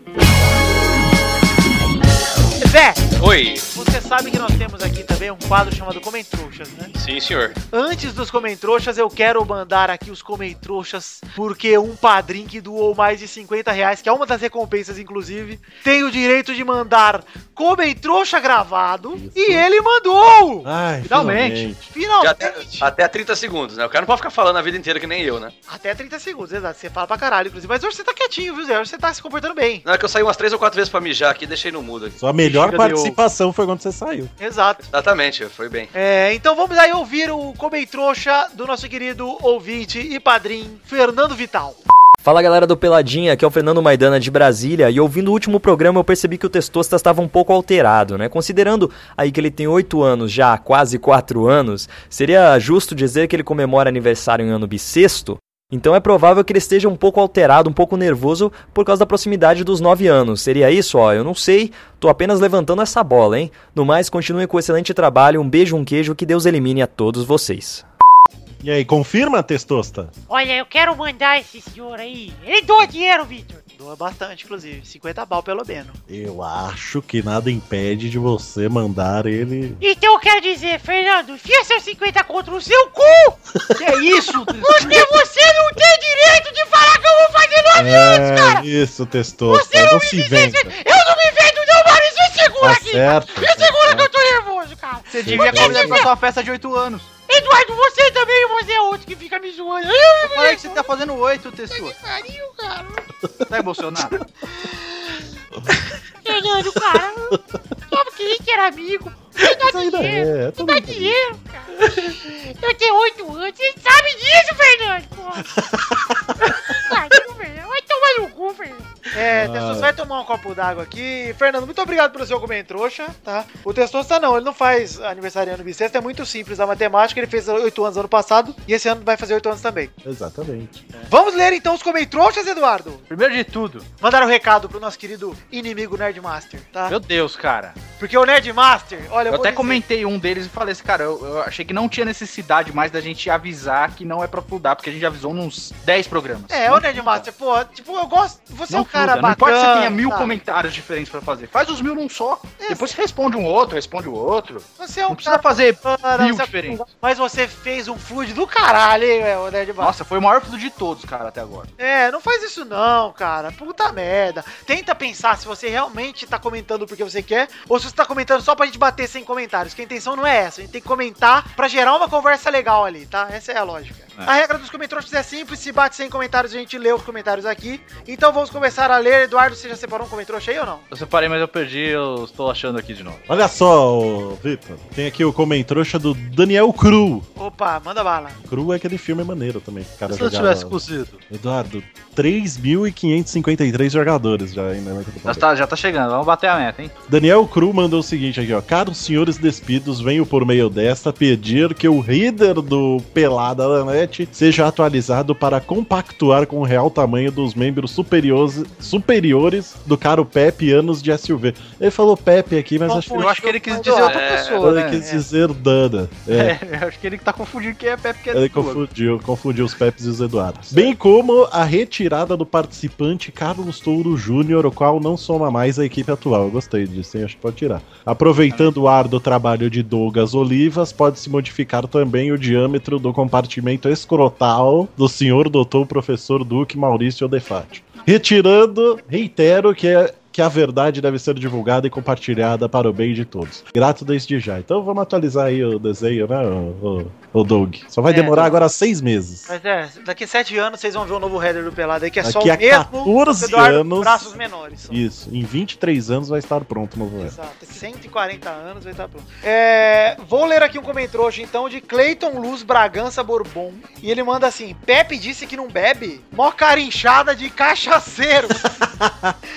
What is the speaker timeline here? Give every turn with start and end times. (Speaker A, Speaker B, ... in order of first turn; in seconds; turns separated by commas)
Speaker A: 2.6-3.0, Speaker B: 3.2-3.6, Speaker A: 3.7-6.9, Speaker B: 7.0-7.5, Speaker A: 7.7-20.7, Speaker C: 19.1-19.7, Speaker C: 20.6-21.9, Speaker D: 21.1-21.7, Speaker A: 21.9-22.9, Speaker B: 22.2-25.5, Speaker A: 25.7-29.8, Speaker B: 29.9-32.2, Speaker C: 32.2-34.3, Speaker D: 32.4-33.2, Speaker A: 34.4-34.8, Speaker B: 34.9-35.9, Speaker A: 35.9-41.8, Speaker E: 42.2-67.8, Speaker C: 68.6-70.1, Speaker F: 70.3-73.6, Speaker A: 73.8-76.0, Speaker C: 76.1-79.8, Speaker F: 79.8-83.4, Speaker D: 83.8-85.0, Speaker F: 84.6-88.7, Speaker C: 87.7-90.7, Speaker F: 89.5-96.1, Speaker C: 92.6-94.1, Speaker D: 95.1-97.1, Speaker C: 95.2-96.1, Speaker F: 97.3-100.9, Speaker D: 100.2-102.0, Speaker F: 101.8-103.1, Speaker D: 103.5-104.2, Speaker F: 106.2-107.4, Speaker F: 107.9-115.5, Speaker C: 109.4-111.2, Speaker C: 111.9-112.1, Speaker C: 115.5-116.4, Speaker F: 116.5-119.0, Speaker A: 119.1-129.9, Speaker C: 119.2-119.9, Speaker C: 130.0-130.9, Speaker A: 131.1-133.1, Speaker D: 133.1-133.9, Speaker A: 134.0-137.0, Speaker D: 136.9-137.8, Speaker A: 138.0-139.8, Speaker D: 139.3-147.3, Speaker A: 146.5-150.3, Speaker D: 148.7-156.8, Speaker A: 152.6-152.9, Speaker A: 154.8-159.9, Speaker D: 159.8-161.7, Speaker A: 161.8-180.8, Speaker D: 180.9-183.2, Speaker C: 183.3-187.3, Speaker A: 187.4-188.4, Speaker C: 188.4-190.8, Speaker D: 190.1-191.2, Speaker C: 191.3-195.4, Speaker D: 195.3-196.9, Speaker C: 197.1-213.7, Speaker A: 212.9-214.3, Speaker D: 213.1-215.1, Speaker B: 213.8-214.6, Speaker C: 214.6-216.6, Speaker D: 216.3-218.8, Speaker C: 218.3-249.6, Speaker D: 228.5-228.8, Speaker A: 248.1-248.5, Speaker A: 249.5-255.0, Speaker C: 252.2-254.3, Speaker C: 254.9-257.4, Speaker A: 257.2-268.6, Speaker C: 268.7-269.4